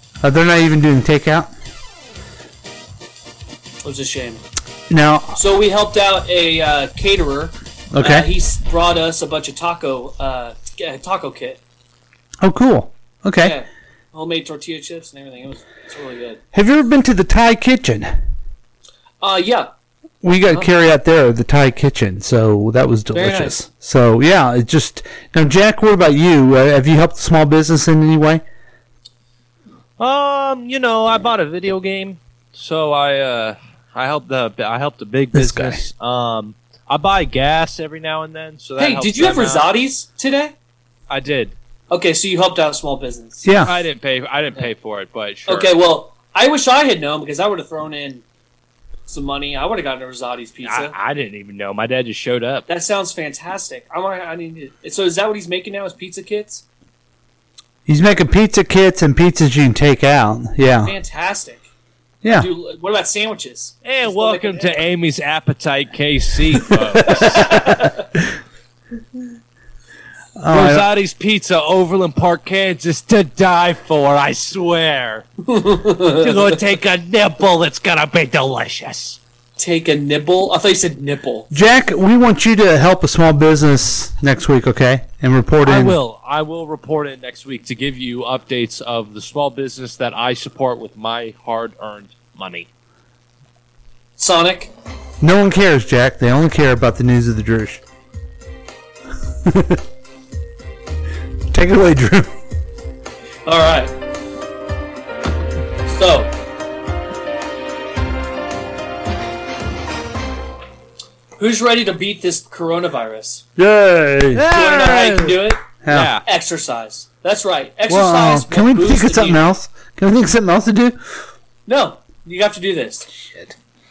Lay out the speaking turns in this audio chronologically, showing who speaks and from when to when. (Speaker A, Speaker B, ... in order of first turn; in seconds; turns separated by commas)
Speaker A: 0.2-1.5, Speaker B: 3.8-4.4, Speaker A: 4.9-5.4, Speaker B: 5.3-11.6, Speaker A: 7.9-8.3, Speaker A: 12.4-13.6, Speaker B: 13.4-16.4, Speaker A: 16.5-18.1, Speaker B: 19.2-19.7, Speaker A: 20.2-28.4, Speaker B: 23.1-23.6, Speaker C: 30.0-39.7, Speaker A: 35.3-35.8, Speaker B: 38.8-40.5, Speaker C: 41.1-41.5, Speaker B: 41.9-43.4, Speaker A: 43.4-43.8, Speaker C: 43.6-45.7, Speaker B: 45.5-48.2, Speaker B: 49.1-50.9, Speaker C: 50.6-52.6, Speaker B: 52.7-56.6, Speaker A: 57.9-60.9, Speaker B: 60.8-61.7, Speaker A: 62.2-62.5, Speaker B: 62.3-64.7, Speaker C: 63.8-67.6, Speaker B: 67.1-68.0, Speaker A: 67.1-67.5, Speaker A: 70.4-70.9, Speaker C: 70.5-75.3, Speaker B: 75.5-76.5, Speaker C: 76.2-79.2, Speaker B: 79.6-81.5, Speaker A: 81.5-86.0, Speaker C: 85.6-92.7, Speaker B: 94.2-94.7, Speaker A: 95.2-97.8, Speaker A: 99.4-99.8, Speaker A: 101.5-102.3, Speaker B: 103.5-103.9, Speaker B: 105.8-106.3, Speaker B: 111.4-113.4, Speaker A: 113.6-114.5, Speaker C: 114.3-116.2, Speaker B: 114.5-115.6, Speaker A: 115.8-116.1, Speaker B: 116.2-119.4, Speaker A: 117.9-121.0, Speaker B: 121.7-123.1, Speaker A: 123.1-123.5